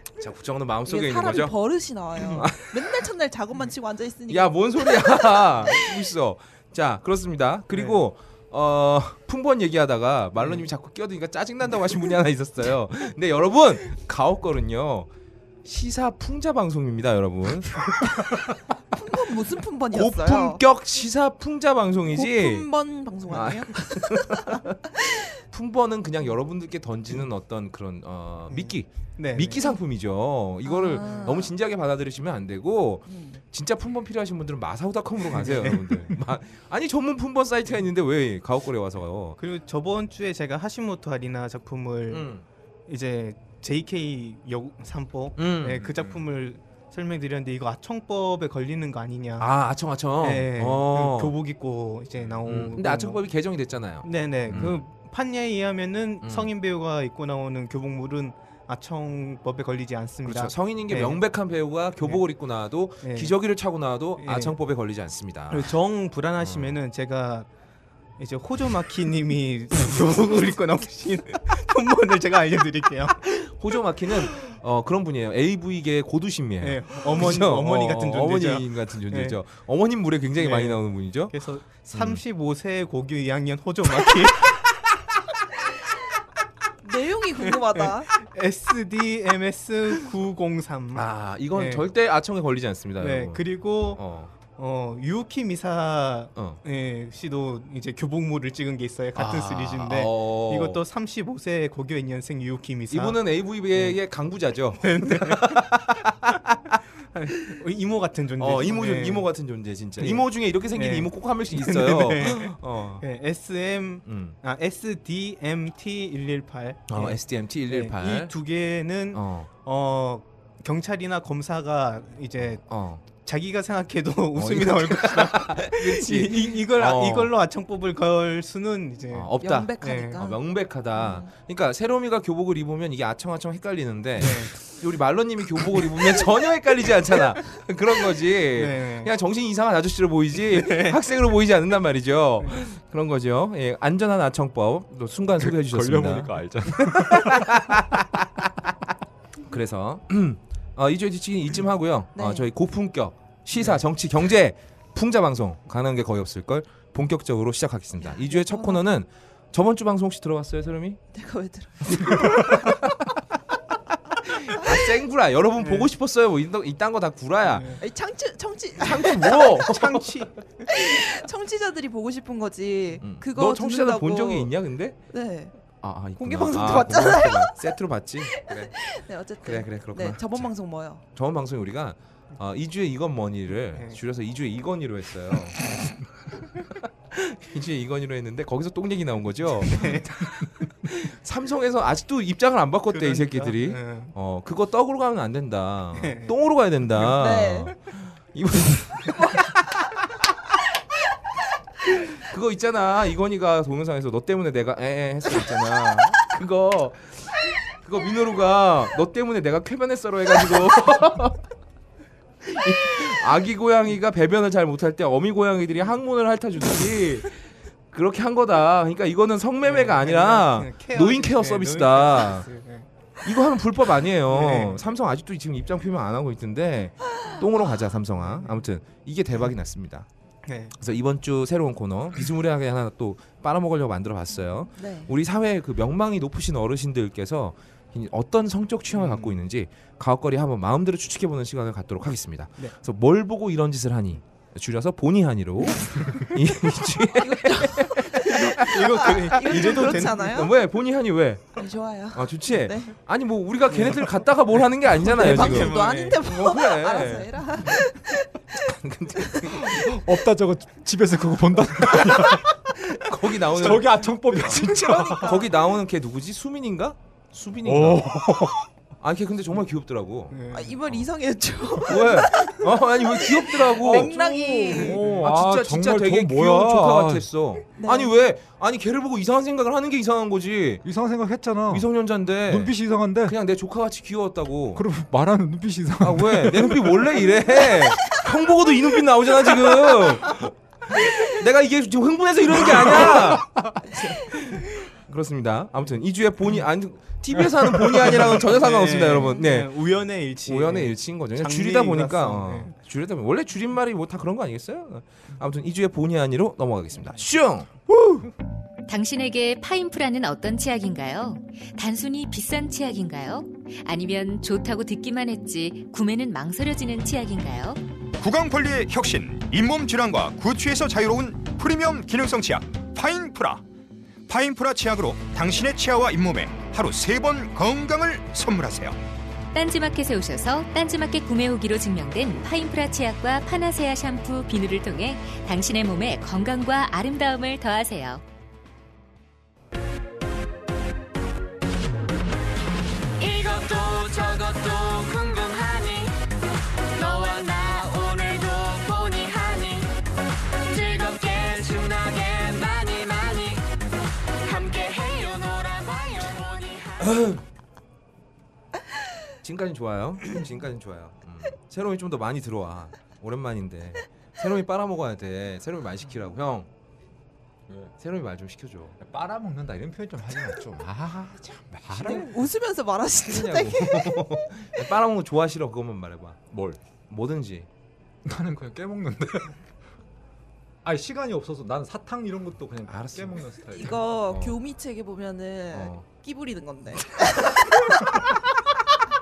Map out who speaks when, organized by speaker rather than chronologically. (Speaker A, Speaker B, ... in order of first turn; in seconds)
Speaker A: 0.2-1.6, 2.2-2.8, 4.3-15.1, 15.6-18.1, 19.9-22.7, 23.3-24.8, 25.4-39.4, 42.1-42.4, 45.4-45.9, 49.4-51.4, 52.4-54.8, 56.2-56.5, 60.2-65.7, 66.4-66.8, 73.3-82.2, 90.9-94.3, 96.3-96.6, 99.1-100.8, 102.9-105.7, 108.4-113.0, 114.0-114.4, 116.9-118.3, 119.1-119.5, 122.7-123.0, 124.4-127.3, 129.1-148.0, 149.5-161.0, 161.9-163.0, 164.2-167.8, 168.8-170.1, 173.0-175.0, 175.8-178.7, 179.4-180.5, 181.1-185.6, 187.1-199.2, 202.2-211.4, 212.4-217.4, 217.9-222.5, 223.2-230.1, 230.8-257.4, 258.6-259.9, 261.9-268.1, 269.0-271.0, 271.8-274.1, 275.2-280.8, 281.7-284.9, 286.0-299.7, 300.4-307.7, 357.0-357.4, 359.4-366.7, 368.0-369.0, 372.0-372.3, 373.3-376.4, 377.1-377.7, 382.9-384.6, 385.7-386.0
Speaker B: 0.8-5.3, 18.9-20.6, 22.1-24.6, 30.6-31.5, 33.1-33.4, 86.8-88.1, 129.4-130.4, 130.9-131.3, 152.1-152.5, 158.1-158.8, 161.1-162.4, 167.8-169.4, 170.7-175.5, 176.2-177.5, 178.3-181.0, 197.2-197.8, 234.7-235.1, 247.2-250.6, 251.6-253.0, 255.0-258.4, 264.4-265.6, 270.5-275.1, 277.8-278.1, 372.0-374.3, 383.7-387.9
Speaker C: 7.7-8.0, 10.4-10.6, 28.5-29.6, 31.0-31.4, 35.3-36.1, 39.4-42.3, 42.9-49.5, 50.2-53.2, 54.0-61.2, 63.0-63.4, 64.2-64.5, 65.5-67.5, 68.2-73.2, 76.6-79.4, 80.4-84.9, 87.7-91.9, 93.0-103.2, 104.8-105.9, 107.1-109.3, 110.0-130.3, 134.2-134.7, 138.6-139.1, 140.5-141.0, 165.6-165.9, 167.5-167.8, 169.6-170.7, 176.2-177.1, 183.7-184.0, 189.7-190.4, 192.9-194.1, 195.9-196.3, 219.6-222.9, 224.3-224.8, 228.2-228.6, 230.4-230.7, 238.9-239.3, 248.2-250.5, 253.7-254.1, 255.3-256.2, 270.3-270.8, 273.8-275.2, 298.4-302.7
Speaker D: 45.9-46.2, 52.3-52.7, 54.5-54.7, 145.4-147.7, 255.1-255.8, 259.5-262.7, 263.5-265.4, 267.6-268.7, 274.7-277.3, 280.8-281.9, 282.4-283.4, 284.8-287.4, 297.6-298.1, 367.7-367.9, 369.0-372.4, 376.5-376.8, 378.2-379.6, 380.9-384.1
Speaker E: 308.9-317.8, 329.5-338.2
Speaker F: 318.2-323.6, 324.3-329.0
Speaker G: 343.2-346.2, 346.9-350.0, 350.5-353.8, 354.4-357.1